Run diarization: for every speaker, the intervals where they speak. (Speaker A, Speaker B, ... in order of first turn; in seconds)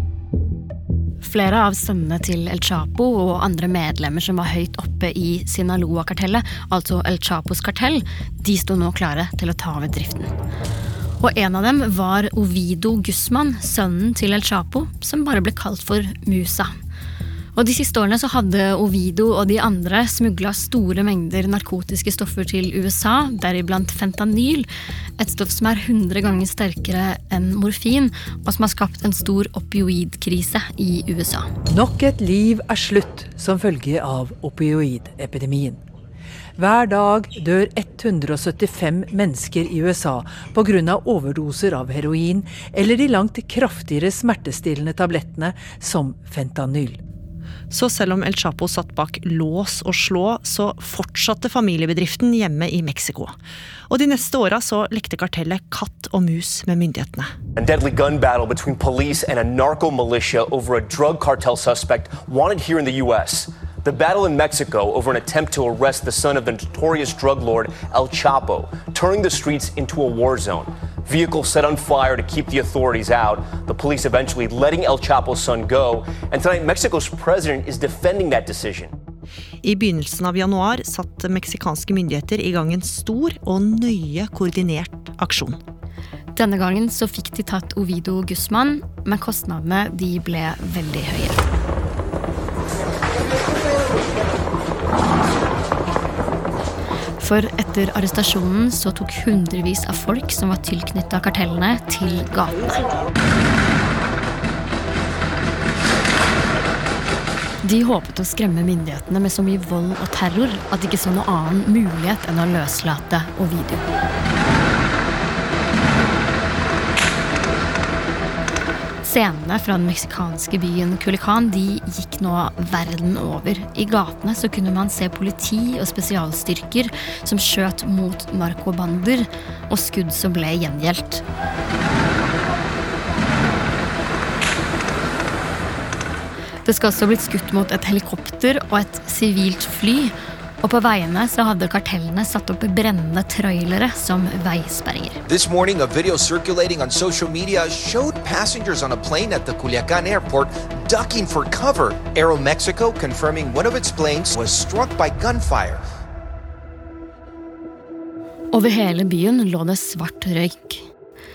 Speaker A: 1.2-10.3, 11.2-16.8, 17.6-24.7, 25.2-31.5, 86.3-91.4, 97.2-102.9, 107.6-113.8, 119.0-131.2, 136.6-145.2, 158.5-160.8
Speaker B: 31.7-35.8, 36.6-47.0
Speaker C: 47.7-53.4, 53.9-57.3, 79.6-85.6
Speaker D: 57.5-78.9
Speaker E: 145.3-155.8